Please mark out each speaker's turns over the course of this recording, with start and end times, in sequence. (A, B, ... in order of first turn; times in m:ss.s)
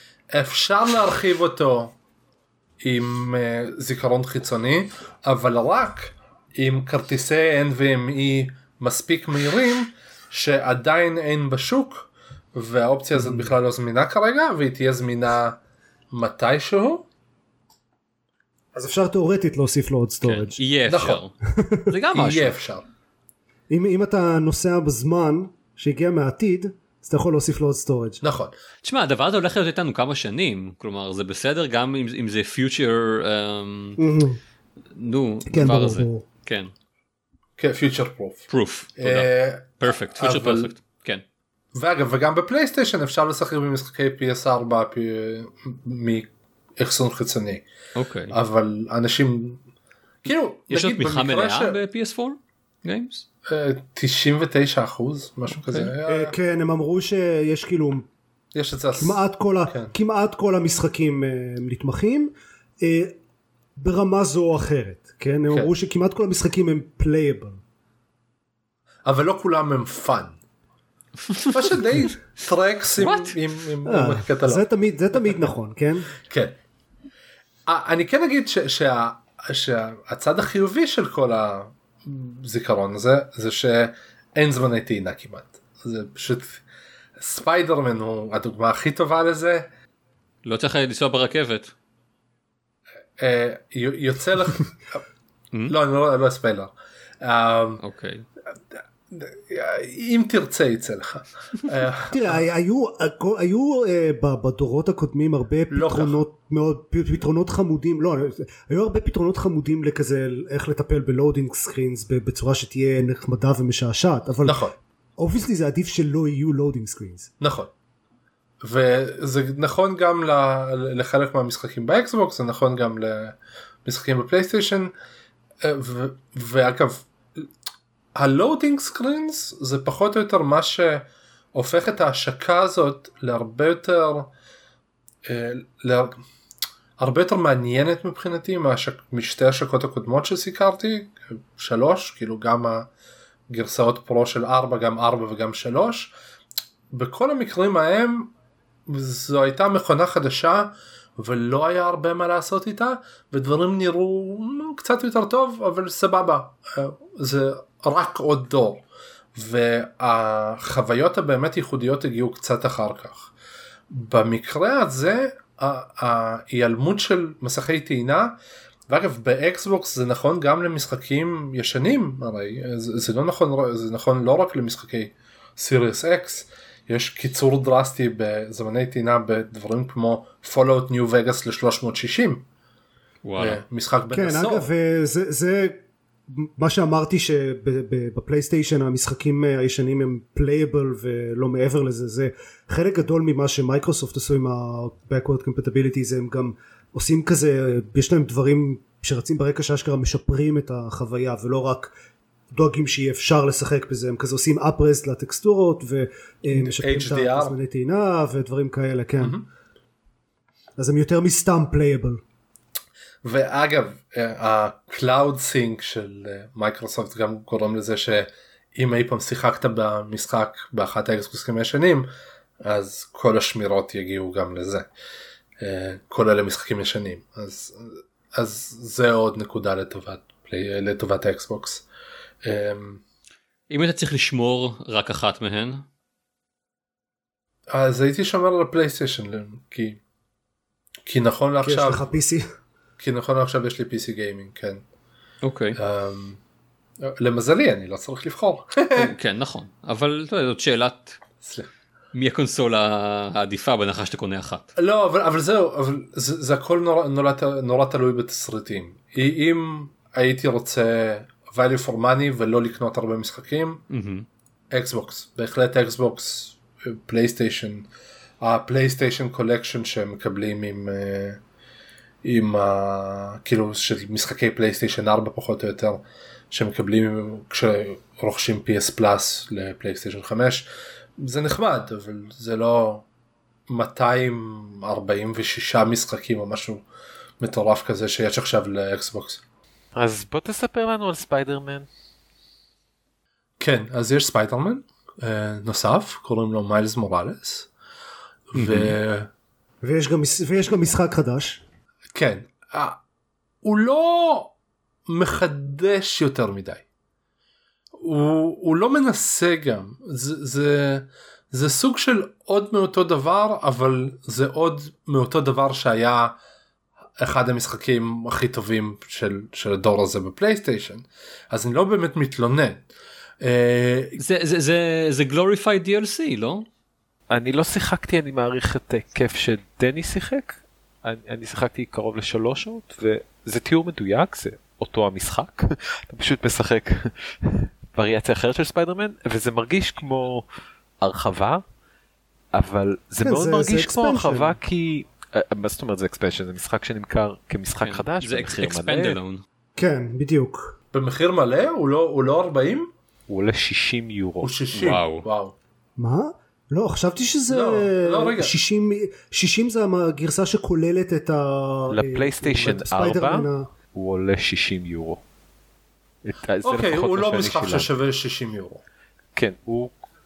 0:00.3-0:01.9 A
0:02.8-0:15.6 A
0:13.1-0:13.5 B
0:16.1-0:17.0 A
0:18.7-0:20.6 B
0:20.2-0:21.3 C
0:20.9-0:21.2 A
0:21.6-0:21.9 B
0:21.9-0:22.6 C
0:22.1-0:22.8 A
0:23.7-0:28.2 B
0:28.2-0:28.5 A
0:28.8-0:34.0 C
0:34.0-0:34.4 B
0:34.9-0:36.7 C
0:35.5-0:36.2 B
0:37.6-0:40.7 A
0:38.5-0:39.3 C
0:39.8-0:41.2 C
0:41.7-0:47.6 A
0:47.9-0:48.4 C
0:48.3-0:49.6 A
0:50.2-0:51.8 A
0:50.7-0:53.2 C
0:53.5-0:56.4 A
0:55.7-0:55.9 C
0:56.1-0:58.1 B
0:58.5-0:59.9 A
0:58.9-1:03.2 B
1:03.8-1:07.6 B
1:05.5-1:05.7 A
1:09.0-1:10.4 A
1:11.2-1:12.1 C
1:11.4-1:14.7 A
1:13.0-1:13.4 C
1:13.8-1:16.1 B
1:16.2-1:16.6 A
1:17.6-1:26.6 A
1:27.2-1:29.7 A
1:30.4-1:31.7 C
1:33.2-1:35.0 A
1:35.7-1:37.8 A
1:37.8-1:38.2 C
1:39.1-1:42.4 A
1:42.1-1:57.3 B
1:45.7-1:46.2 A
1:54.4-1:54.7 A
1:57.4-1:57.7 A
1:58.6-2:04.9 A
2:05.6-2:07.5 A
2:08.1-2:14.3 A
2:15.2-2:16.2 A
2:17.0-2:22.9 A
2:23.5-2:26.1 A
2:26.9-2:28.3 A
2:28.9-2:38.8 A
2:39.3-2:43.3 A
2:43.9-2:48.4 A
2:48.9-3:02.4 A
3:03.2-3:03.6 C
3:03.4-3:04.7 A
3:04.1-3:21.9 B
3:22.5-3:29.4 B
3:26.5-3:27.6 A
3:30.8-3:32.2 B
3:33.2-3:42.1 A
3:42.6-3:44.9 A
3:45.6-3:51.8 A
3:52.4-3:53.0 A
3:53.7-3:55.8 C
3:57.7-4:00.0 A
4:01.0-4:02.1 A
4:01.6-4:02.4 B
4:03.0-4:04.8 A
4:05.4-4:05.8 C
4:05.8-4:06.4 A
4:07.0-4:09.1 A
4:08.9-4:11.2 C
4:11.4-4:11.7 A
4:12.1-4:14.7 C
4:14.8-4:23.8 A
4:23.9-4:24.3 C
4:24.7-4:27.8 A
4:28.4-4:31.4 A
4:32.2-4:43.0 A
4:43.7-4:46.8 A
4:47.4-4:49.4 A
4:49.9-4:51.9 D
4:53.6-4:57.7 A
4:58.5-4:59.3 A
4:58.6-4:58.9 C
4:59.8-5:01.6 B
5:02.1-5:03.0 A
5:03.6-5:04.5 A
5:05.1-5:06.8 A
5:08.0-5:16.4 A
5:17.2-5:22.8 A
5:23.4-5:24.2 A
5:24.2-5:26.6 C
5:27.3-5:40.4 D
5:41.0-5:41.6 D
5:42.5-5:49.2 D
5:43.2-5:44.6 B
5:47.8-5:49.4 C
5:49.8-5:50.8 B
5:50.9-5:52.9 A
5:53.3-5:54.5 D
5:54.4-5:55.5 A
5:54.7-5:55.2 C
5:56.0-6:03.6 B
5:57.5-5:58.5 A
6:01.9-6:05.2 D
6:06.2-6:07.9 D
6:06.6-6:08.8 A
6:09.4-6:09.9 D